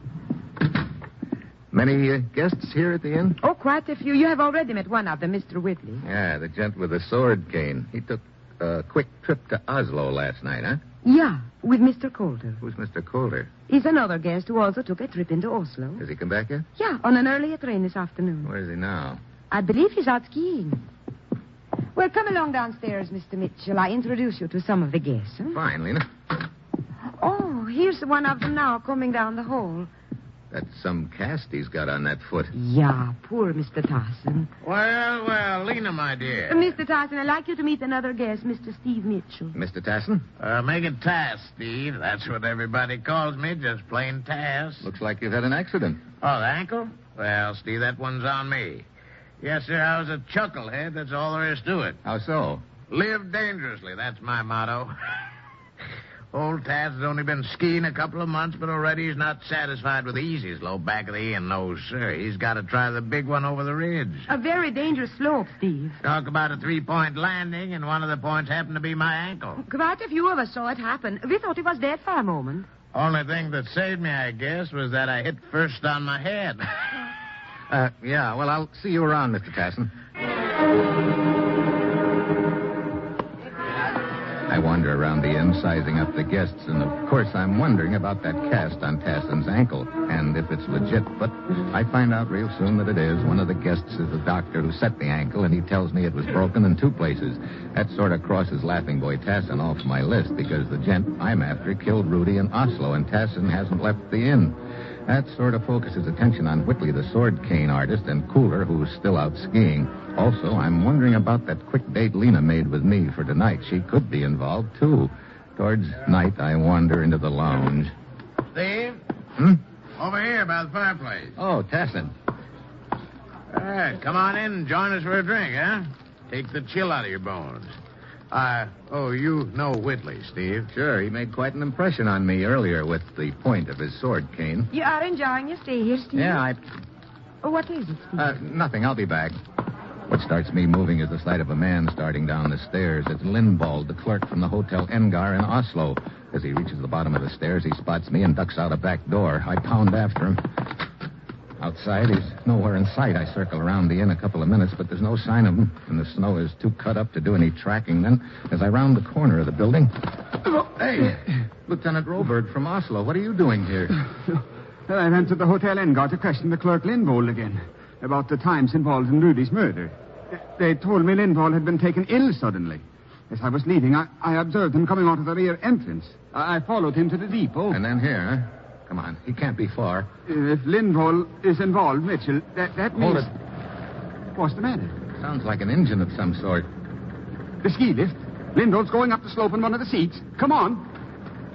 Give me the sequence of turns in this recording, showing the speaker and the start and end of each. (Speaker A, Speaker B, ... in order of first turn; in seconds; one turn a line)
Speaker A: 1.7-3.4
Speaker B: 3.4-6.0
Speaker A: 6.0-10.8
Speaker B: 11.0-12.6
Speaker A: 12.6-13.5
Speaker B: 13.7-16.0
Speaker A: 16.0-16.7
Speaker B: 16.8-18.5
Speaker A: 18.4-19.2
Speaker B: 19.5-20.8
Speaker B: 21.9-25.6
Speaker A: 25.5-26.1
Speaker B: 27.2-29.9
Speaker A: 30.5-32.5
Speaker B: 32.5-34.5
Speaker C: 34.6-36.6
Speaker B: 36.5-39.5
Speaker A: 39.5-40.2
Speaker C: 40.4-44.9
Speaker A: 44.8-46.0
Speaker C: 46.2-48.9
Speaker C: 49.4-52.0
Speaker A: 52.0-52.6
Speaker C: 52.9-54.9
Speaker C: 56.3-64.3
Speaker B: 64.3-66.0
Speaker C: 66.0-69.6
Speaker B: 69.6-72.7
Speaker C: 72.9-76.7
Speaker A: 77.7-79.9
Speaker A: 84.5-117.9
Speaker C: 118.5-119.0
Speaker C: 120.0-121.3
Speaker A: 121.4-122.1
Speaker C: 123.5-127.7
Speaker C: 128.3-130.7
Speaker A: 130.7-134.7
Speaker B: 134.7-136.4
Speaker A: 136.1-136.6
Speaker B: 137.4-138.2
Speaker A: 138.2-139.4
Speaker A: 140.1-150.4
Speaker A: 151.6-163.9
Speaker D: 164.9-177.8
Speaker A: 177.7-180.1
Speaker D: 180.3-183.3
Speaker A: 183.0-183.3
Speaker D: 184.3-185.0
Speaker A: 185.2-186.7
Speaker D: 187.6-190.9